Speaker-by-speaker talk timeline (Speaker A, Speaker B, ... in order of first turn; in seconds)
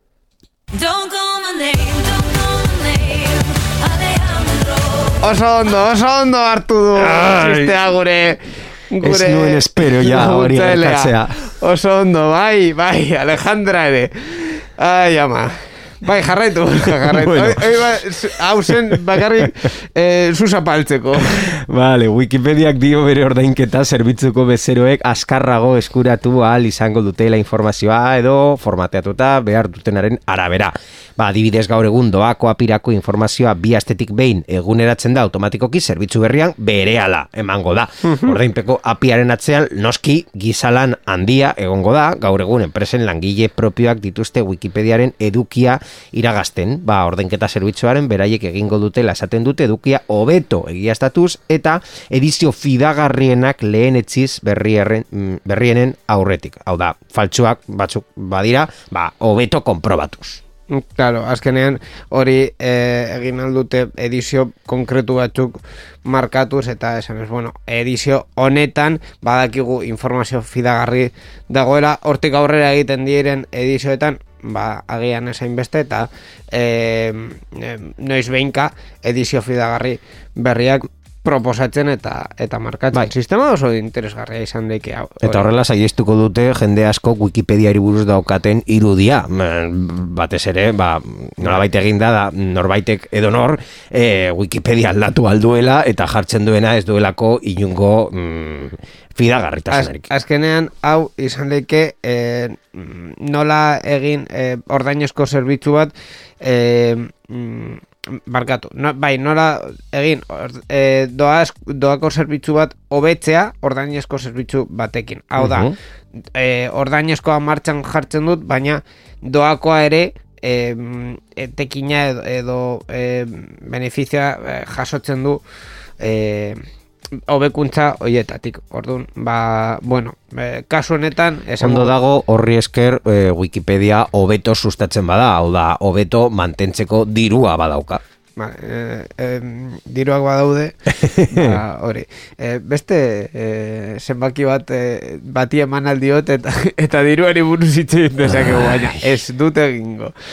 Speaker A: 0.7-5.2
Speaker B: 5.2-21.5, 38.0-38.4, 60.7-85.5, 99.7-115.7, 116.3-125.4, 126.0-126.6, 127.3-131.9, 138.4-150.1
Speaker C: 7.0-7.8, 9.0-11.4, 17.0-17.8, 18.7-19.5, 21.3-60.4, 85.2-100.1, 115.4-115.7, 131.6-138.0, 141.0-141.6, 148.2-149.0